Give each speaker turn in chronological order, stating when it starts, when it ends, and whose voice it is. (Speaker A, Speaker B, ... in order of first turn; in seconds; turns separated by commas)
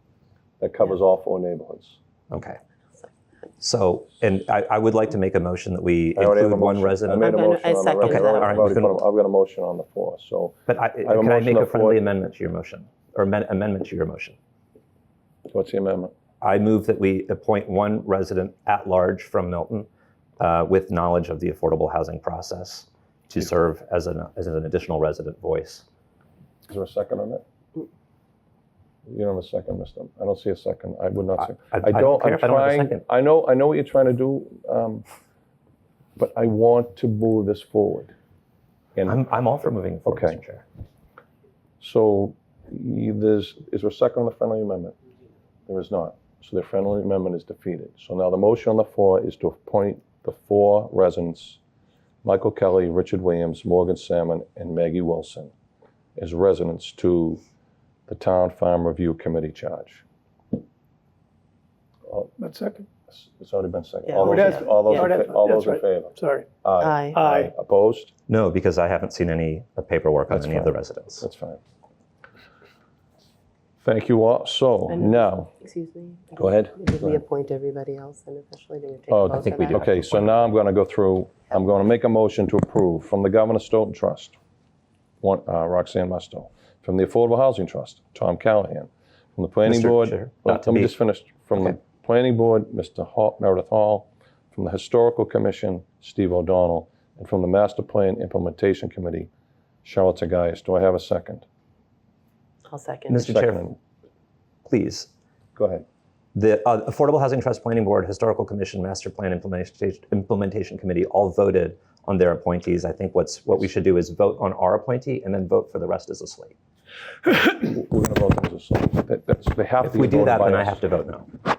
Speaker A: 0.6-2.0, Speaker B: 2.3-2.6, Speaker B: 3.6-7.3, Speaker A: 6.2-12.0, Speaker C: 7.2-8.6, Speaker B: 8.0-9.0, Speaker B: 10.7-14.4, Speaker A: 15.5-16.1, Speaker B: 16.4-19.9, Speaker B: 20.4-25.8, Speaker A: 26.7-27.4, Speaker A: 29.1-35.0, Speaker B: 31.4-33.0, Speaker A: 36.2-38.1, Speaker B: 39.0-40.6, Speaker A: 40.0-40.4, Speaker A: 41.8-45.0, Speaker A: 45.7-51.6, Speaker A: 52.2-55.5, Speaker A: 56.2-57.4, Speaker A: 58.1-60.0, Speaker A: 62.1-62.3, Speaker D: 62.4-62.9, Speaker A: 63.1-68.1, Speaker C: 64.1-65.1, Speaker D: 64.2-66.5, Speaker C: 66.8-67.3, Speaker D: 67.1-67.5, Speaker B: 68.3-71.3, Speaker A: 70.3-71.6, Speaker A: 73.8-75.5, Speaker C: 74.9-79.8, Speaker A: 76.3-77.2, Speaker A: 79.1-84.3, Speaker B: 79.4-80.4, Speaker A: 85.2-99.3, Speaker B: 89.6-90.9, Speaker A: 99.8-101.4, Speaker C: 102.7-103.2, Speaker B: 103.1-103.7, Speaker A: 103.1-103.8, Speaker B: 104.7-105.1, Speaker A: 105.5-105.8, Speaker B: 106.3-116.5, Speaker A: 117.2-120.8, Speaker B: 119.8-121.3